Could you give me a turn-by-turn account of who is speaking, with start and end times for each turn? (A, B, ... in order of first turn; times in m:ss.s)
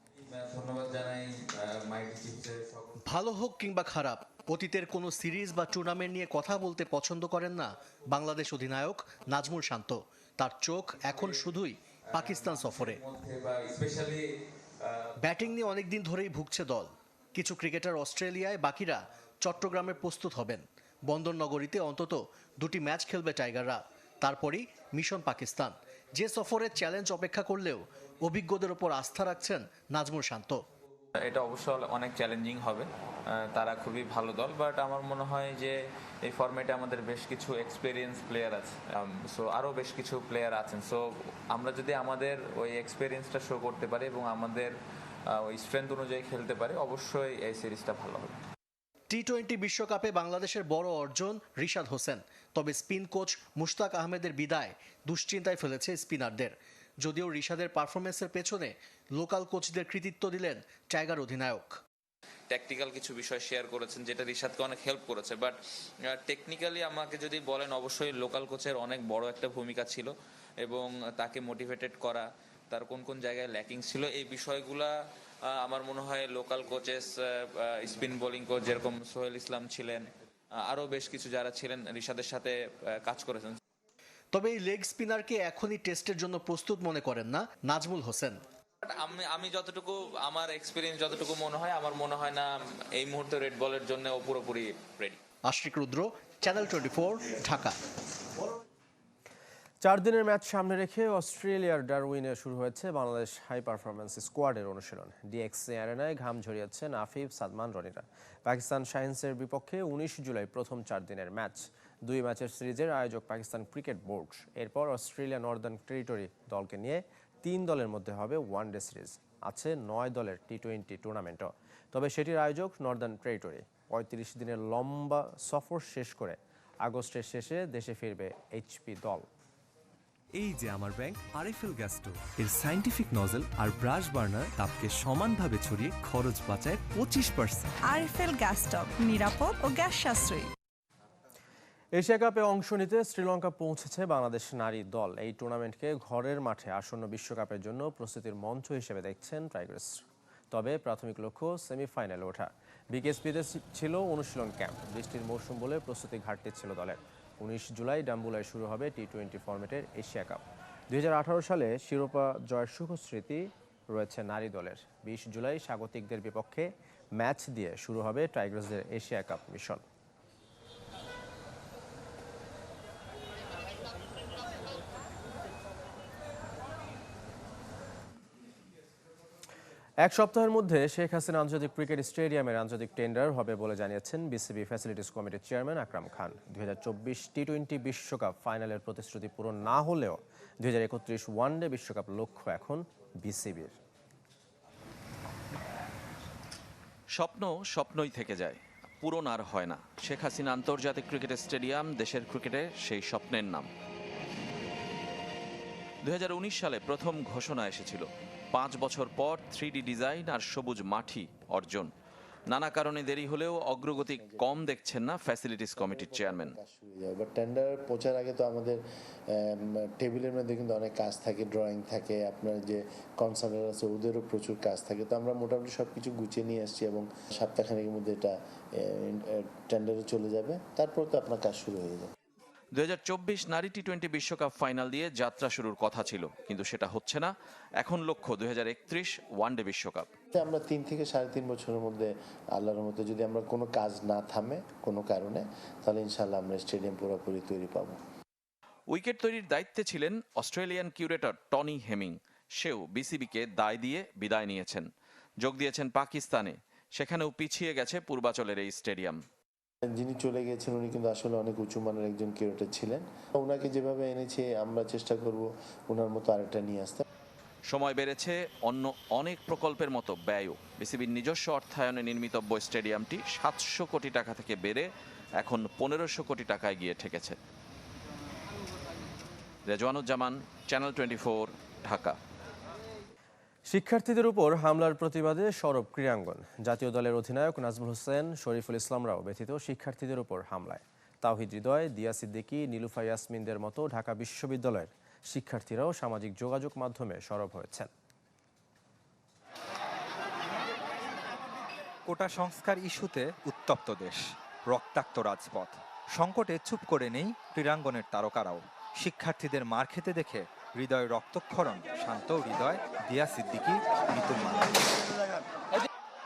0:00.3-0:03.0 A
0:03.0-0:13.0 B
0:11.1-0:11.5 A
0:12.2-0:14.2 A
0:14.8-0:15.1 A
0:15.2-0:30.6 B
0:31.2-0:44.7 A
0:45.3-0:48.4 A
0:49.1-1:01.8 B
1:02.5-1:05.6 A
1:06.1-1:10.1 A
1:10.6-1:14.9 A
1:15.5-1:20.0 A
1:20.6-1:23.6 A
1:24.3-1:28.4 B
1:28.8-1:35.2 A
1:35.5-1:37.8 B
1:39.8-2:09.3 C
2:10.4-2:17.8 D
2:17.8-2:20.5 E
2:22.0-2:29.9 C
2:30.5-2:49.8 C
3:00.0-3:13.8 C
3:17.2-3:23.7 F
3:26.0-3:31.9 F
3:32.5-3:36.6 F
3:33.8-3:34.6 G
3:35.8-3:52.1 G
3:52.8-4:00.1 F
4:00.3-4:08.0 G
4:08.9-4:14.9 F
4:15.4-4:19.2 F
4:19.9-4:27.0 G
4:27.7-4:34.9 F
4:35.4-4:37.4 F
4:39.7-4:42.2 F
4:43.7-4:57.9 C
5:02.1-5:15.0 H